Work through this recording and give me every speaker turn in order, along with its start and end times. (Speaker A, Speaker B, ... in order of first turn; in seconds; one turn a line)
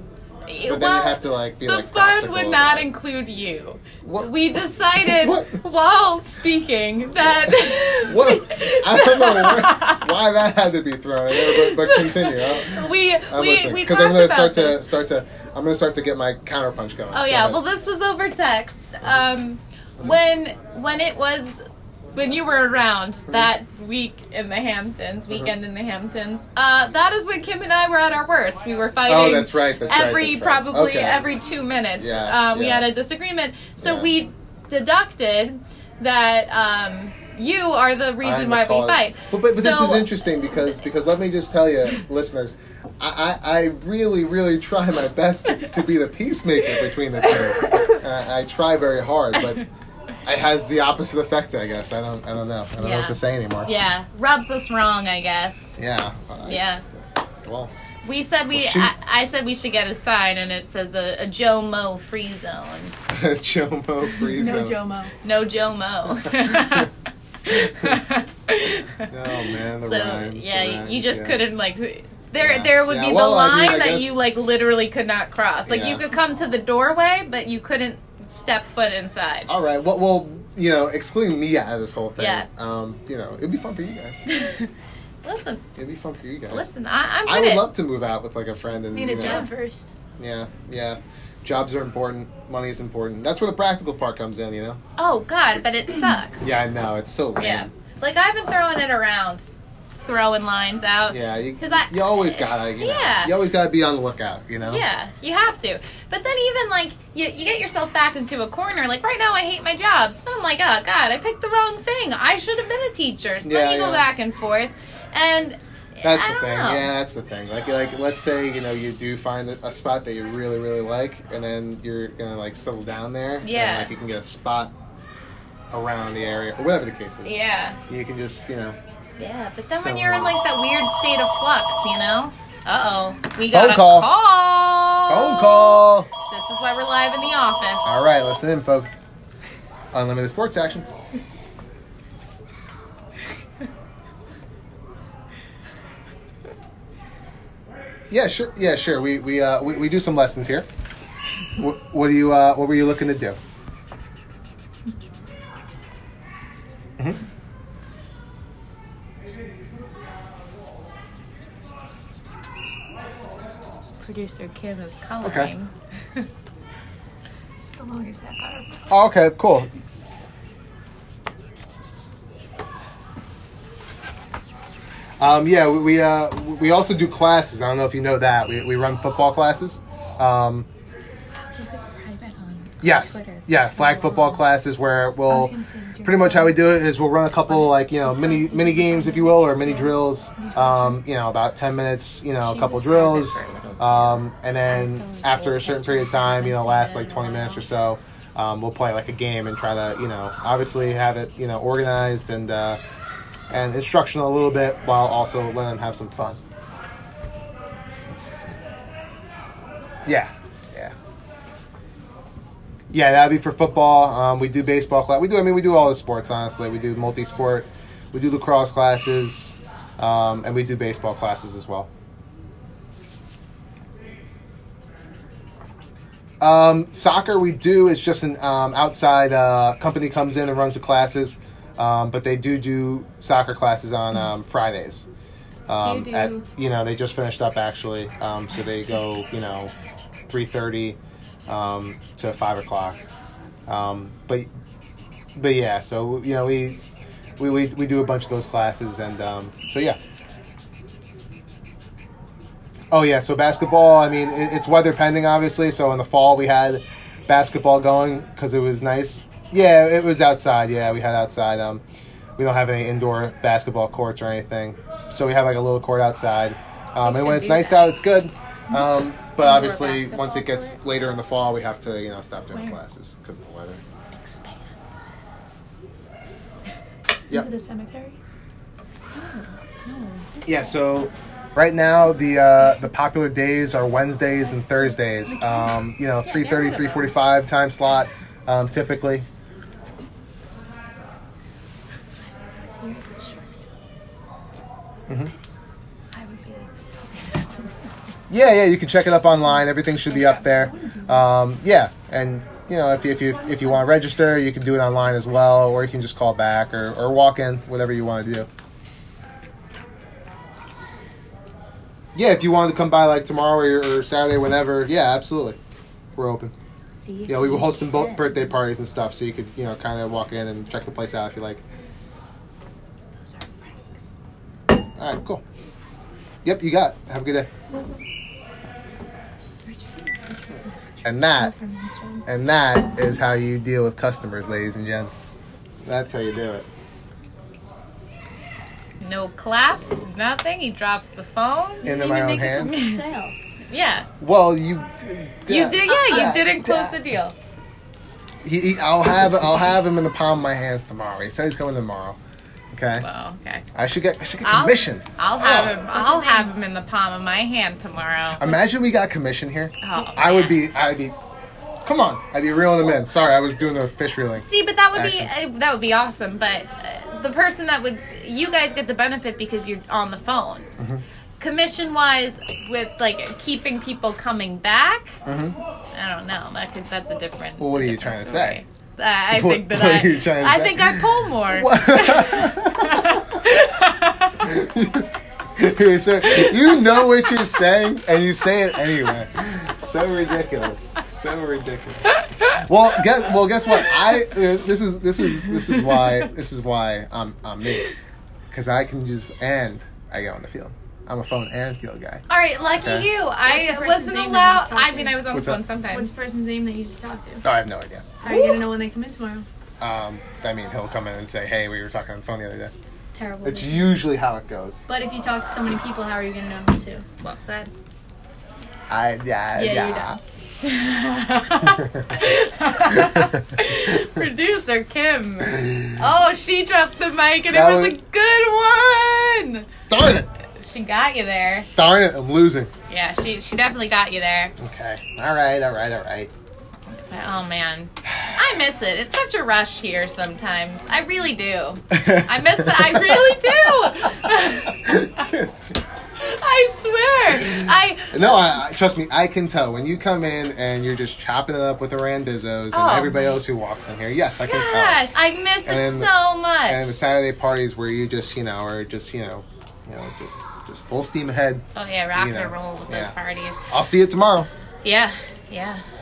Speaker A: 0.5-10.1
Speaker B: 0.7-2.9
Speaker B: 4.0-4.3
Speaker B: 5.0-5.6
Speaker B: 8.0-17.6
Speaker A: 11.3-14.9
Speaker A: 17.1-21.6
Speaker A: 22.1-40.1
Speaker B: 29.1-31.3
Speaker B: 31.9-32.9
Speaker B: 33.8-34.1
Speaker B: 38.2-49.6
Speaker A: 47.3-48.0
Speaker B: 50.2-53.7
Speaker A: 52.8-55.8
Speaker B: 55.8-57.7
Speaker A: 56.5-56.8
Speaker A: 58.0-62.9
Speaker B: 58.5-58.9
Speaker B: 63.1-64.8
Speaker C: 64.3-65.1
Speaker A: 65.2-66.9
Speaker B: 66.2-66.9
Speaker A: 67.4-79.5
Speaker B: 67.6-68.0
Speaker B: 69.0-71.4
Speaker B: 72.4-74.2
Speaker B: 75.7-76.0
Speaker B: 79.5-84.2
Speaker A: 82.2-82.5
Speaker A: 84.3-84.7
Speaker A: 85.2-85.6
Speaker B: 85.7-86.7
Speaker A: 86.5-87.6
Speaker B: 87.2-89.5
Speaker C: 88.9-89.9
Speaker A: 89.1-89.5
Speaker B: 90.2-94.8
Speaker A: 95.0-96.5
Speaker B: 96.4-97.7
Speaker A: 97.4-103.3
Speaker B: 101.1-104.8
Speaker A: 104.7-116.9
Speaker B: 113.4-114.1
Speaker B: 116.0-124.7
Speaker A: 123.4-123.9
Speaker B: 125.7-127.3
Speaker A: 127.2-127.8
Speaker B: 127.9-128.8
Speaker A: 129.2-138.0
Speaker B: 129.7-130.4
Speaker B: 133.5-134.1
Speaker B: 135.1-136.1
Speaker B: 137.8-139.0
Speaker B: 139.9-141.1
Speaker B: 148.1-150.7
Speaker B: 151.6-153.4
Speaker A: 164.0-166.3
Speaker B: 165.2-165.5
Speaker C: 167.6-168.8
Speaker B: 168.9-169.8
Speaker B: 175.2-180.7
Speaker C: 181.3-184.4
Speaker B: 182.8-202.8
Speaker C: 185.3-191.0
Speaker A: 192.5-194.2
Speaker C: 192.5-193.4
Speaker C: 194.6-197.6
Speaker B: 203.5-206.4
Speaker B: 210.0-210.9
Speaker B: 212.9-221.9
Speaker B: 226.4-235.1
Speaker B: 235.7-239.7
Speaker C: 235.8-236.4
Speaker B: 240.3-243.0
Speaker B: 243.7-244.5
Speaker B: 245.3-246.8
Speaker B: 247.4-250.0
Speaker B: 252.9-261.8
Speaker B: 262.4-273.8
Speaker A: 267.0-267.9
Speaker A: 269.4-270.7
Speaker A: 274.3-274.5
Speaker C: 277.3-278.2
Speaker A: 279.1-280.4
Speaker B: 280.4-289.3
Speaker C: 284.4-285.8
Speaker A: 286.2-287.1
Speaker C: 292.2-294.2
Speaker B: 295.1-295.3
Speaker C: 295.2-295.6
Speaker C: 296.1-297.9
Speaker B: 298.3-308.5
Speaker C: 299.4-301.3
Speaker C: 303.0-303.9
Speaker B: 312.1-315.6
Speaker B: 316.1-316.5
Speaker C: 316.9-318.5
Speaker B: 317.3-321.6
Speaker C: 323.2-324.1
Speaker B: 324.9-325.4
Speaker B: 326.4-327.5
Speaker C: 329.6-332.2
Speaker B: 331.0-331.5
Speaker B: 332.2-335.2
Speaker B: 335.8-336.7
Speaker A: 339.0-343.0
Speaker B: 341.8-342.8
Speaker C: 341.8-343.3
Speaker A: 343.7-344.1
Speaker B: 344.2-346.9
Speaker A: 345.5-347.3
Speaker C: 345.9-346.6
Speaker B: 348.4-352.2
Speaker B: 352.7-353.1
Speaker A: 353.0-353.6
Speaker B: 353.7-355.8
Speaker A: 354.4-358.6
Speaker C: 355.7-356.5
Speaker B: 358.4-361.1
Speaker A: 359.8-360.6
Speaker B: 361.8-365.3
Speaker A: 364.4-375.2
Speaker B: 375.2-375.6
Speaker A: 375.9-384.4
Speaker B: 377.6-378.6
Speaker B: 379.3-383.4
Speaker B: 384.4-397.9
Speaker A: 392.1-392.6
Speaker A: 395.4-396.2
Speaker B: 398.5-402.2
Speaker A: 402.3-406.1
Speaker B: 402.8-403.1
Speaker C: 403.4-405.2
Speaker B: 405.3-405.6
Speaker C: 405.9-407.4
Speaker B: 407.4-408.1
Speaker C: 408.2-409.4
Speaker A: 408.2-408.6
Speaker B: 409.8-412.7
Speaker C: 413.1-414.0
Speaker B: 413.4-414.8
Speaker C: 414.9-417.1
Speaker A: 417.2-417.7
Speaker B: 418.9-420.2
Speaker C: 419.5-420.1
Speaker A: 420.6-429.7
Speaker B: 421.6-422.2
Speaker B: 422.9-424.2
Speaker B: 425.4-426.0
Speaker B: 427.5-428.0
Speaker B: 429.9-430.3
Speaker A: 430.6-431.7
Speaker B: 431.7-432.7
Speaker A: 432.9-434.5
Speaker B: 434.6-436.3
Speaker A: 437.1-445.1
Speaker B: 438.0-438.5
Speaker B: 441.9-445.8
Speaker A: 446.2-448.5
Speaker B: 447.3-455.1
Speaker A: 452.7-453.4
Speaker A: 454.4-457.0
Speaker B: 455.6-456.1
Speaker B: 456.6-463.1
Speaker A: 461.7-463.6
Speaker B: 463.7-464.5
Speaker A: 464.8-465.8